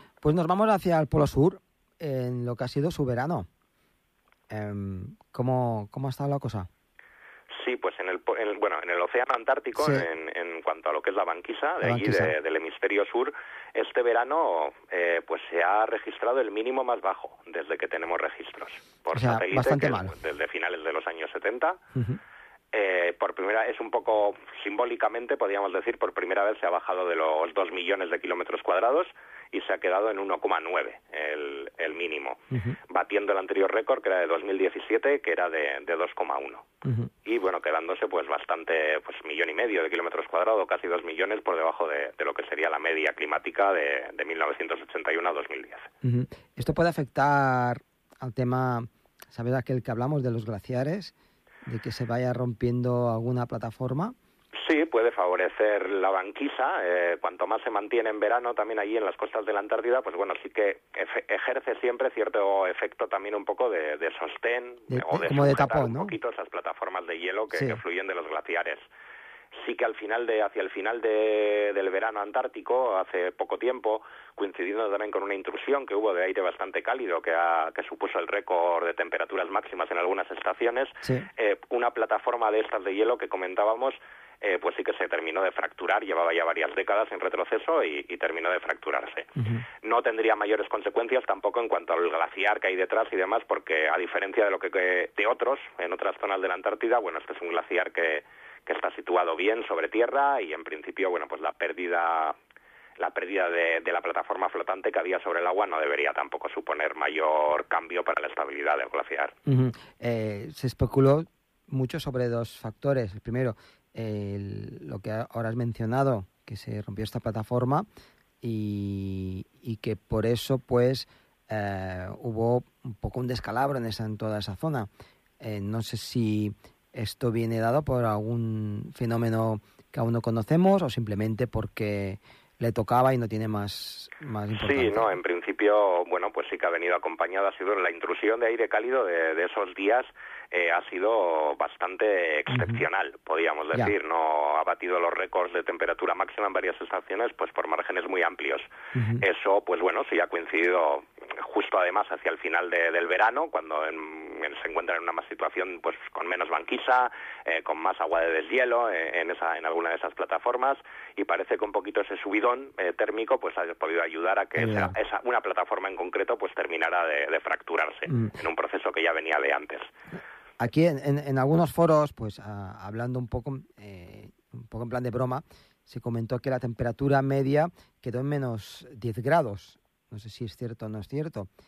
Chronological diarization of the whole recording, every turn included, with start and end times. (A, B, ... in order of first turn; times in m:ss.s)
0:00.2-0:03.5 A
0:04.5-0:06.7 A
0:07.5-0:21.8 B
0:09.8-0:10.1 A
0:11.8-0:12.3 A
0:19.1-0:20.2 A
0:21.9-0:22.2 A
0:22.7-0:36.7 B
0:36.8-0:37.1 A
0:37.2-0:45.9 B
0:46.0-0:51.1 A
0:51.6-0:54.2 A
0:54.6-1:08.9 B
1:04.9-1:06.2 A
1:07.5-1:07.8 A
1:09.6-1:42.4 B
1:21.0-1:21.3 A
1:29.4-1:29.6 A
1:43.0-1:49.3 B
1:49.5-1:57.9 A
1:58.4-2:04.9 A
2:05.4-2:15.1 A
2:14.5-2:49.9 B
2:22.5-2:22.8 A
2:28.9-2:29.2 A
2:44.6-2:44.9 A
2:48.1-2:48.3 A
2:50.6-3:01.5 A